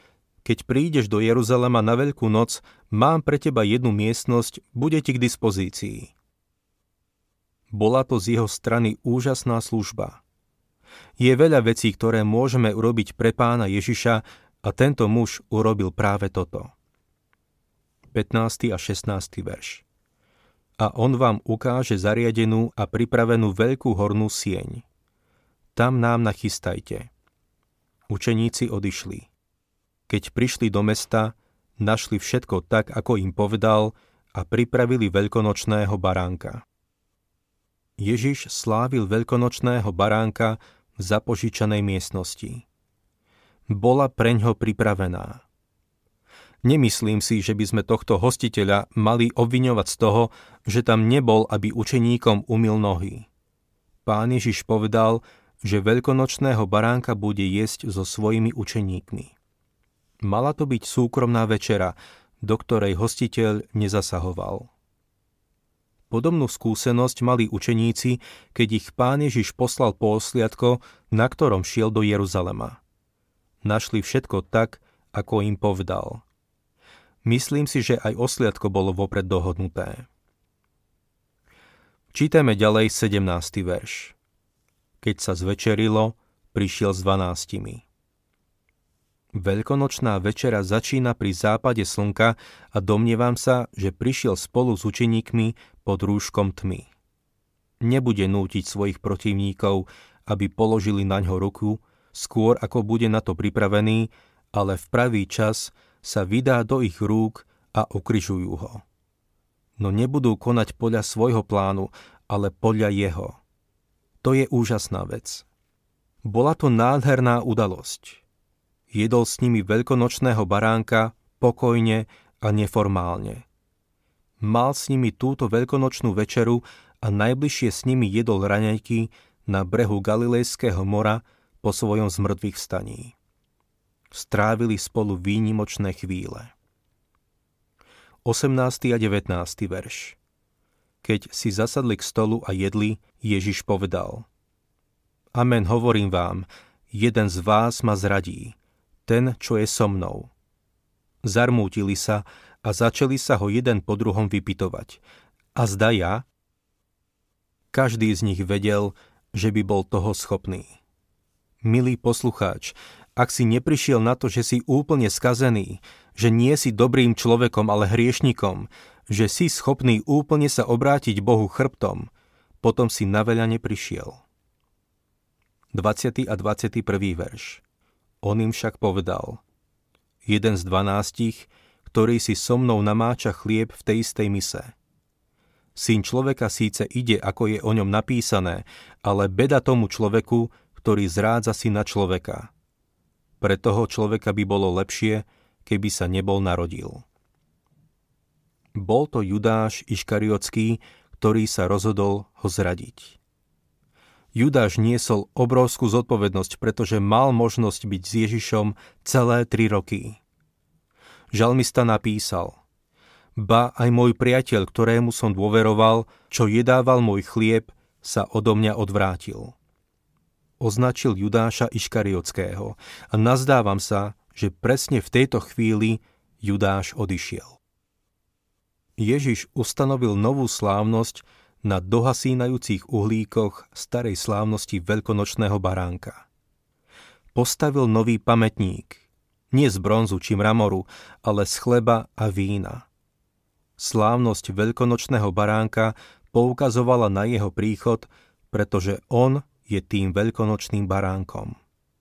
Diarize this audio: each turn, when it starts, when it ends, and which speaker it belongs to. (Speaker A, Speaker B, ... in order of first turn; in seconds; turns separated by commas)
Speaker A: 0.4-6.1, Speaker A: 7.7-10.2, Speaker A: 11.2-16.7, Speaker A: 18.1-19.8, Speaker A: 20.8-24.8, Speaker A: 25.7-27.1, Speaker A: 28.1-29.3, Speaker A: 30.1-36.6, Speaker A: 38.0-42.6, Speaker A: 43.7-45.4, Speaker A: 46.6-53.3, Speaker A: 54.0-59.3, Speaker A: 60.2-64.7, Speaker A: 66.1-72.8, Speaker A: 73.6-76.2, Speaker A: 77.2-80.1, Speaker A: 82.1-84.2, Speaker A: 85.0-87.8, Speaker A: 89.3-96.9, Speaker A: 97.8-108.8, Speaker A: 109.8-113.4, Speaker A: 114.2-115.5, Speaker A: 116.2-118.2, Speaker A: 118.9-123.4, Speaker A: 124.4-133.1, Speaker A: 134.1-136.5, Speaker A: 138.2-140.2, Speaker A: 141.0-144.3, Speaker A: 145.3-150.3, Speaker A: 151.2-155.0, Speaker A: 155.5-156.3, Speaker A: 157.7-160.8, Speaker A: 161.6-172.1, Speaker A: 172.6-174.2, Speaker A: 175.7-177.6, Speaker A: 178.2-179.4, Speaker A: 180.2-184.7, Speaker A: 185.7-192.5, Speaker A: 193.4-197.0, Speaker A: 198.7-203.2, Speaker A: 204.3-210.2, Speaker A: 211.3-212.6, Speaker A: 213.3-219.6, Speaker A: 220.6-227.6, Speaker A: 229.0-236.2, Speaker A: 237.3-242.8, Speaker A: 243.8-251.6